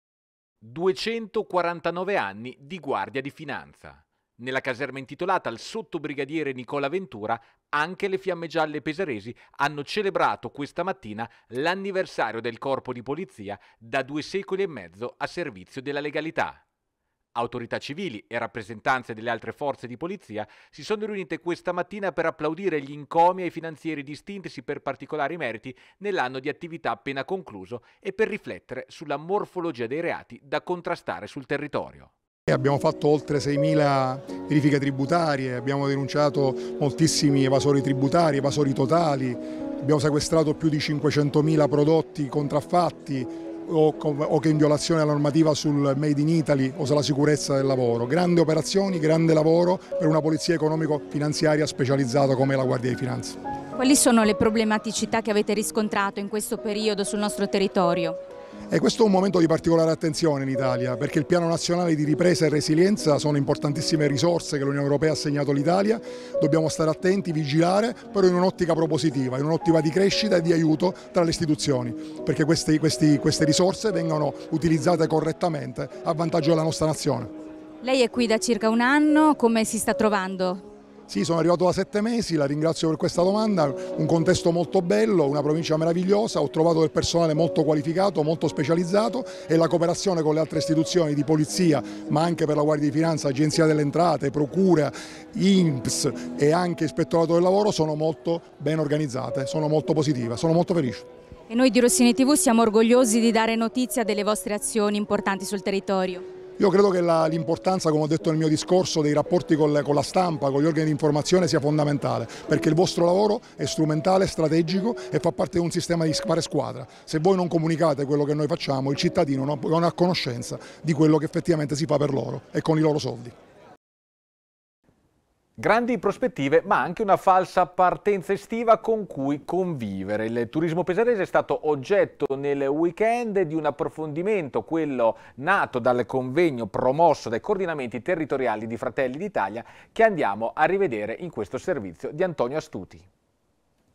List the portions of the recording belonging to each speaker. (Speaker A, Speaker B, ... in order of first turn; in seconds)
Speaker A: 0.6-16.6, 17.3-32.1, 125.6-143.1
Speaker B: 32.5-53.4, 58.7-77.3, 81.1-101.0, 106.6-123.3
Speaker C: 53.8-58.2, 77.8-80.6, 101.5-106.2